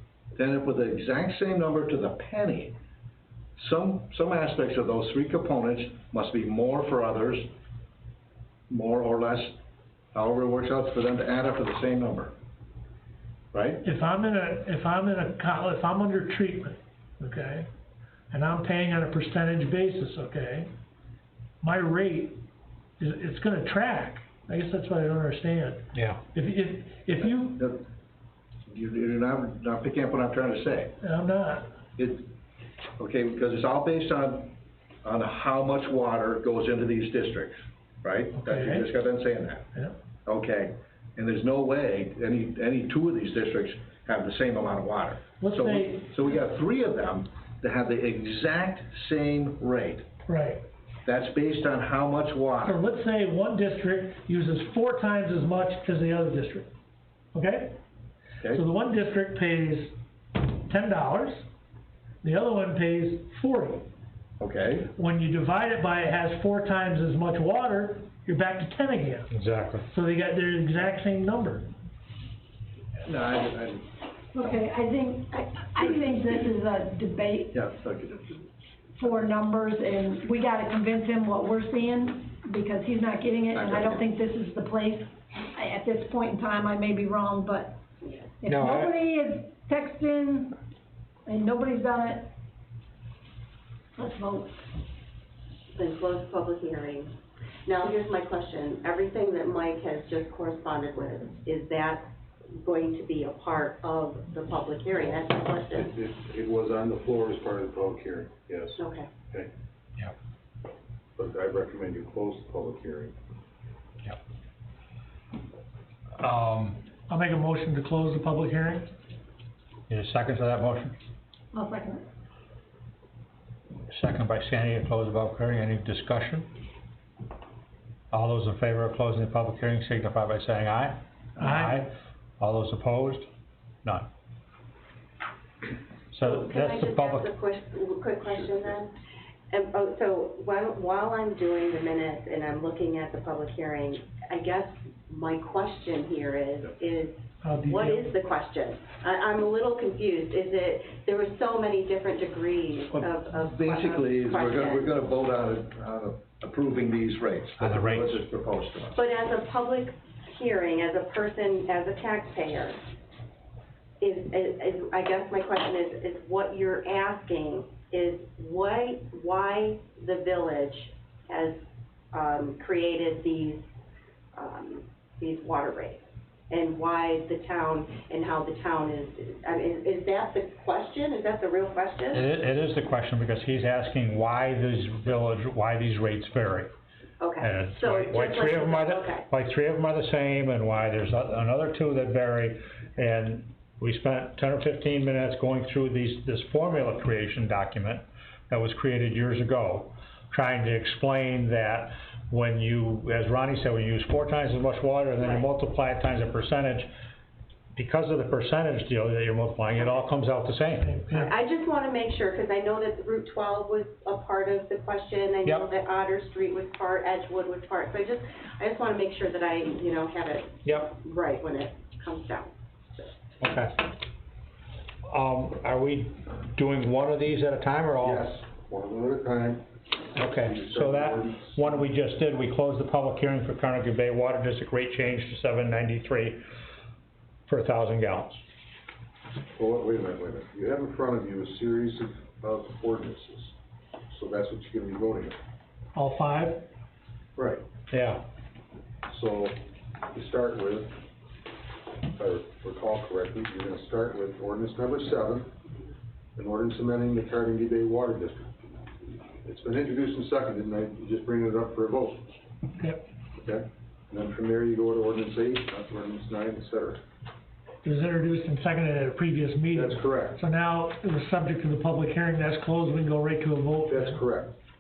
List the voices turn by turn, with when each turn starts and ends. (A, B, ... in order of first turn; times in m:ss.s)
0:00.4-0:02.8 A
0:03.6-0:07.5 A
0:08.7-0:09.6 A
0:10.1-0:12.3 A
0:13.5-0:13.8 A
0:13.8-0:17.7 B
0:18.3-0:20.7 B
0:21.6-0:22.4 B
0:23.0-0:27.6 B
0:25.9-0:26.2 C
0:27.2-0:27.9 A
0:28.7-0:31.0 A
0:31.0-0:31.7 B
0:32.0-0:32.3 A
0:33.0-0:34.5 A
0:35.0-0:39.7 A
0:38.4-0:38.9 B
0:40.3-0:50.1 A
0:45.4-0:46.2 B
0:50.3-0:50.6 B
0:51.1-0:52.8 A
0:52.6-0:56.7 B
0:57.3-0:57.8 B
0:58.5-1:01.5 B
1:02.2-1:03.9 B
1:04.4-1:04.9 A
1:05.0-1:09.3 B
1:09.3-1:09.9 C
1:09.9-1:11.7 B
1:13.0-1:13.9 A
1:14.3-1:17.6 D
1:17.5-1:18.4 A
1:19.0-1:27.8 D
1:23.5-1:24.0 A
1:28.0-1:28.3 E
1:28.4-1:30.6 D
1:28.5-1:28.9 C
1:31.3-1:32.3 D
1:34.0-1:34.6 D
1:35.7-1:37.1 E
1:37.7-1:45.9 E
1:45.7-1:48.8 F
1:48.8-1:49.1 E
1:51.2-1:53.2 F
1:56.2-1:56.8 C
1:57.1-1:58.9 B
1:59.9-2:01.0 C
2:01.5-2:02.0 D
2:03.9-2:06.5 C
2:08.1-2:13.3 C
2:11.4-2:11.8 B
2:13.8-2:14.1 C
2:16.1-2:17.3 C
2:16.2-2:18.9 E
2:19.5-2:34.9 E
2:27.4-2:28.1 B
2:32.9-2:39.0 A
2:37.6-2:38.2 C
2:38.9-2:42.8 E
2:44.0-2:51.6 E
2:52.1-2:53.7 E
2:54.4-3:02.2 E
3:02.1-3:06.7 C
3:07.2-3:09.3 E
3:07.4-3:26.9 C
3:27.7-3:31.0 C
3:30.8-3:31.3 B
3:31.1-3:43.1 E
3:40.6-3:41.0 C
3:43.4-3:43.9 C
3:45.1-3:48.3 C
3:48.0-3:49.6 F
3:50.2-3:56.4 C
3:50.2-3:51.8 F
3:57.5-3:58.4 C
3:59.6-4:03.6 F
4:04.1-4:05.4 F
4:06.0-4:06.6 B
4:07.9-4:08.2 C
4:09.1-4:09.6 F
4:10.1-4:11.0 F
4:12.1-4:15.5 F
4:16.4-4:18.7 F
4:19.4-4:22.2 F
4:22.8-4:23.0 B
4:23.4-4:27.0 F
4:27.8-4:34.2 B
4:29.7-4:30.4 F
4:33.9-4:34.6 F